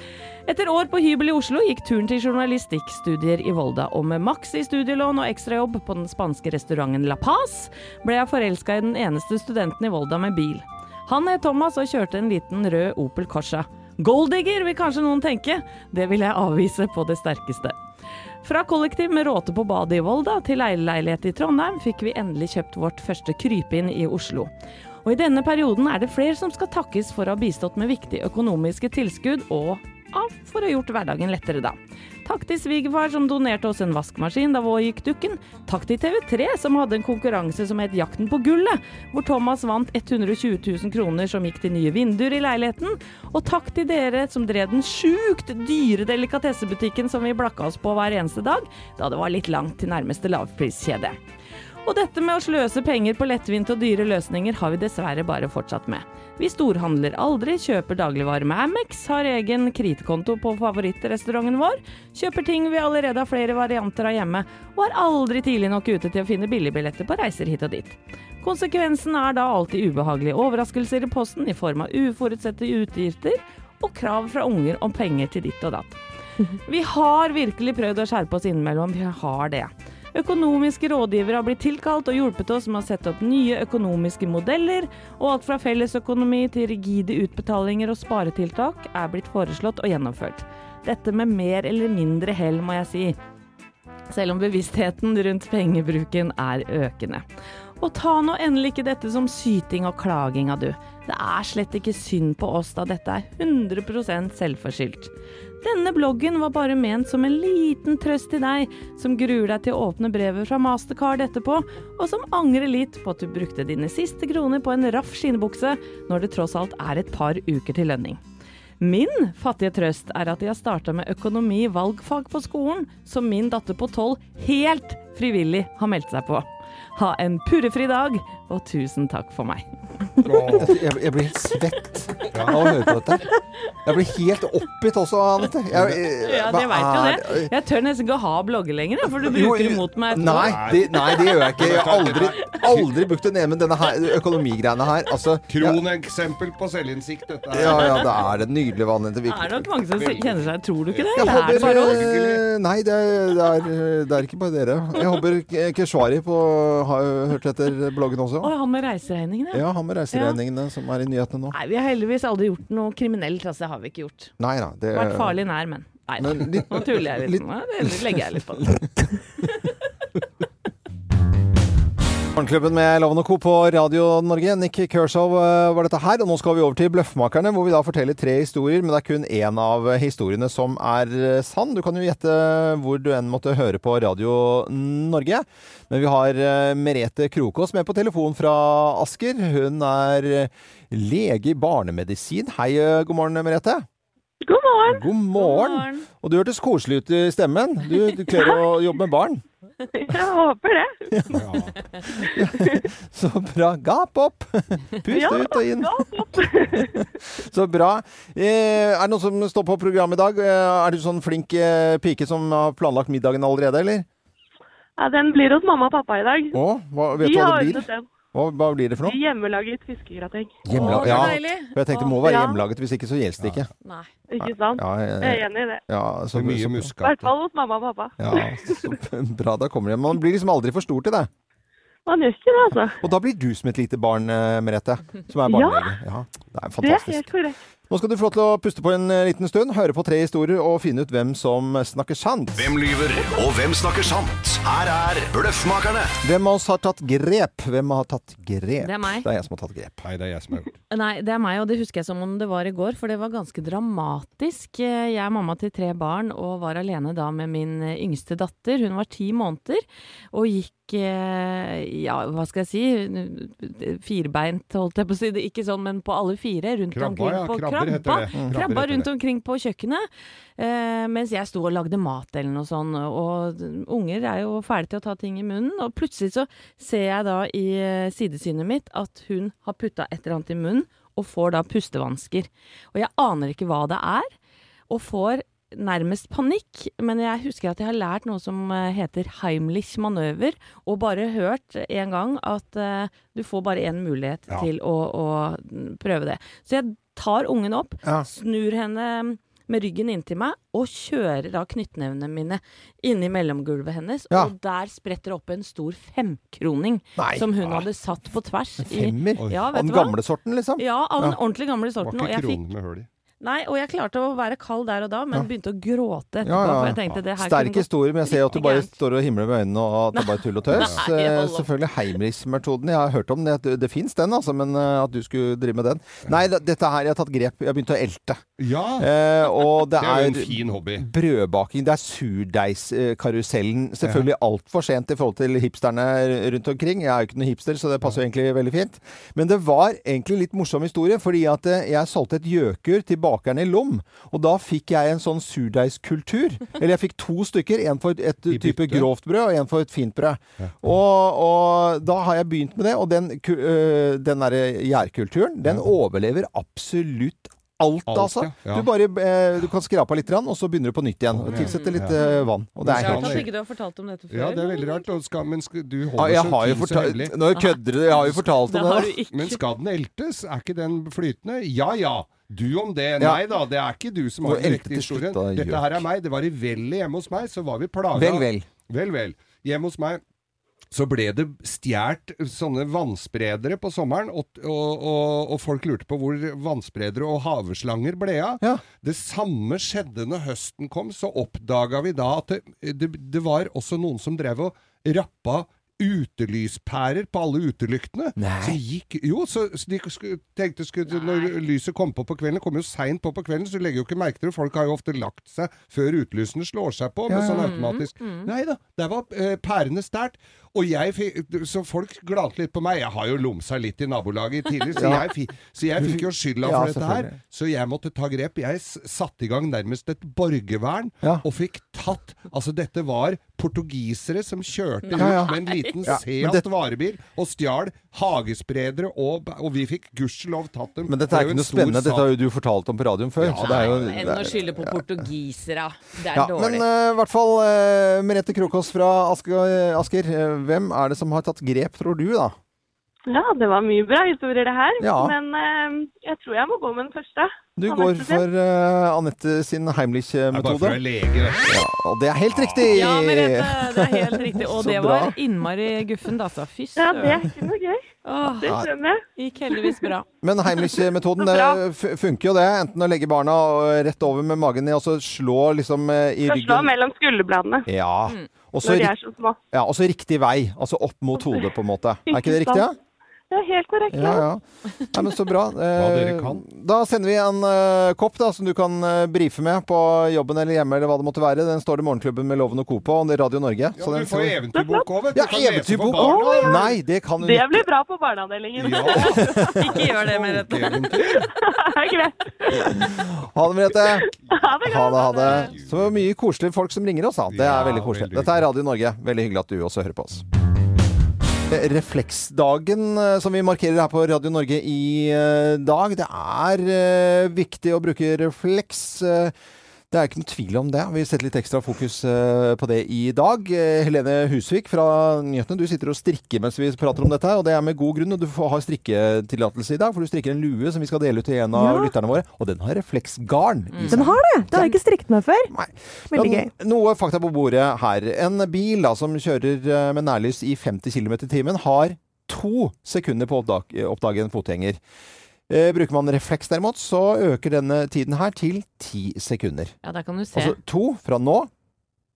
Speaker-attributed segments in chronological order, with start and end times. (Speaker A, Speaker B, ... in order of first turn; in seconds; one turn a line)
Speaker A: 0.5-17.8
Speaker A: 18.4-24.5
Speaker A: 25.1-51.2
Speaker A: 51.9-76.0
Speaker A: 76.7-93.2
Speaker A: 94.1-97.2
Speaker A: 97.8-118.2
Speaker A: 118.8-129.7
Speaker B: 130.2-130.8
Speaker C: 130.6-133.3
Speaker B: 132.3-132.7
Speaker C: 133.8-137.5
Speaker A: 136.1-141.4
Speaker C: 139.1-145.8
Speaker B: 140.3-142.9
Speaker B: 145.5-148.2
Speaker C: 147.5-149.7
Speaker A: 149.3-152.0
Speaker B: 150.0-152.4
Speaker C: 151.2-158.5
Speaker A: 158.4-160.4
Speaker C: 159.5-161.6
Speaker A: 161.5-164.3
Speaker C: 164.4-165.4
Speaker A: 164.9-168.9
Speaker C: 166.2-168.8
Speaker C: 172.3-193.9
Speaker D: 194.4-195.1
Speaker C: 194.8-199.4
Speaker A: 195.4-196.1
Speaker D: 199.9-201.4
Speaker C: 201.1-201.4
Speaker B: 201.3-201.8
Speaker C: 202.1-206.1
Speaker D: 202.6-202.8
Speaker D: 205.1-207.0
Speaker C: 206.7-214.1
Speaker D: 215.0-216.6
Speaker C: 216.5-219.2
Speaker D: 217.2-218.1
Speaker D: 219.0-221.0
Speaker C: 220.7-223.7
Speaker A: 220.7-222.1
Speaker B: 221.0-221.3
Speaker D: 222.2-222.6
Speaker B: 223.4-223.7
Speaker A: 223.8-224.1
Speaker D: 224.3-225.8
Speaker C: 224.4-226.9
Speaker B: 226.3-227.3
Speaker D: 227.0-228.9
Speaker C: 228.2-231.3
Speaker D: 232.1-233.0
Speaker C: 233.0-237.3
Speaker D: 235.5-235.9
Speaker D: 236.8-237.6
Speaker C: 237.9-242.8
Speaker E: 242.6-246.2
Speaker C: 246.2-250.0
Speaker A: 248.8-249.3
Speaker B: 250.0-250.8
Speaker A: 250.9-270.1
Speaker B: 266.9-269.1
Speaker C: 268.4-268.6
Speaker A: 270.6-284.3
Speaker A: 284.9-310.2
Speaker C: 307.2-307.9
Speaker C: 308.8-311.4
Speaker B: 309.4-309.6
Speaker A: 310.8-312.6
Speaker B: 312.0-313.1
Speaker A: 313.4-318.9
Speaker C: 316.4-328.5
Speaker A: 320.1-321.7
Speaker B: 328.6-329.1
Speaker C: 329.0-363.5
Speaker B: 329.9-331.1
Speaker B: 334.0-334.3
Speaker B: 348.5-349.1
Speaker B: 358.1-358.9
Speaker B: 361.3-362.2
Speaker A: 361.5-365.1
Speaker B: 362.8-363.5
Speaker B: 364.3-367.4
Speaker C: 366.2-369.1
Speaker A: 367.5-369.6
Speaker B: 369.3-380.2
Speaker C: 374.4-376.1
Speaker C: 378.1-378.7
Speaker B: 380.9-432.4
Speaker C: 398.4-398.8
Speaker A: 401.1-401.5
Speaker C: 407.3-407.7
Speaker A: 407.4-408.5
Speaker C: 414.9-415.3
Speaker C: 416.0-417.4
Speaker A: 425.1-426.2
Speaker C: 425.1-426.6
Speaker C: 431.1-435.1
Speaker B: 433.4-434.1
Speaker A: 433.6-436.9
Speaker C: 436.3-442.6
Speaker D: 443.3-448.4
Speaker C: 445.0-445.4
Speaker C: 447.8-451.0
Speaker B: 450.5-451.8
Speaker C: 451.7-455.4
Speaker B: 452.6-452.8
Speaker A: 452.9-457.4
Speaker D: 457.0-458.0
Speaker A: 458.2-458.8
Speaker D: 458.6-459.2
Speaker C: 458.6-458.9
Speaker A: 459.4-460.2
Speaker C: 460.4-466.9
Speaker D: 460.8-461.8
Speaker D: 466.4-467.9
Speaker C: 467.9-469.1
Speaker D: 468.8-469.6
Speaker C: 469.7-472.9
Speaker D: 472.3-472.9
Speaker D: 473.5-474.4
Speaker C: 474.1-484.6
Speaker B: 476.0-476.6
Speaker B: 484.0-486.8
Speaker D: 484.7-485.1
Speaker C: 485.4-487.9
Speaker D: 486.1-490.1
Speaker B: 488.8-489.5
Speaker C: 489.4-489.8
Speaker A: 489.8-491.1
Speaker B: 490.1-491.5
Speaker D: 491.2-493.1
Speaker C: 492.8-494.3
Speaker D: 494.0-495.7
Speaker C: 494.8-500.4
Speaker B: 495.4-496.2
Speaker B: 497.5-498.6
Speaker C: 501.7-509.5
Speaker C: 510.1-525.0
Speaker F: 521.8-522.1
Speaker A: 523.9-524.2
Speaker F: 524.1-525.7
Speaker C: 525.7-535.0
Speaker F: 526.3-526.7
Speaker C: 535.7-539.9
Speaker A: 540.0-540.8
Speaker C: 540.5-541.7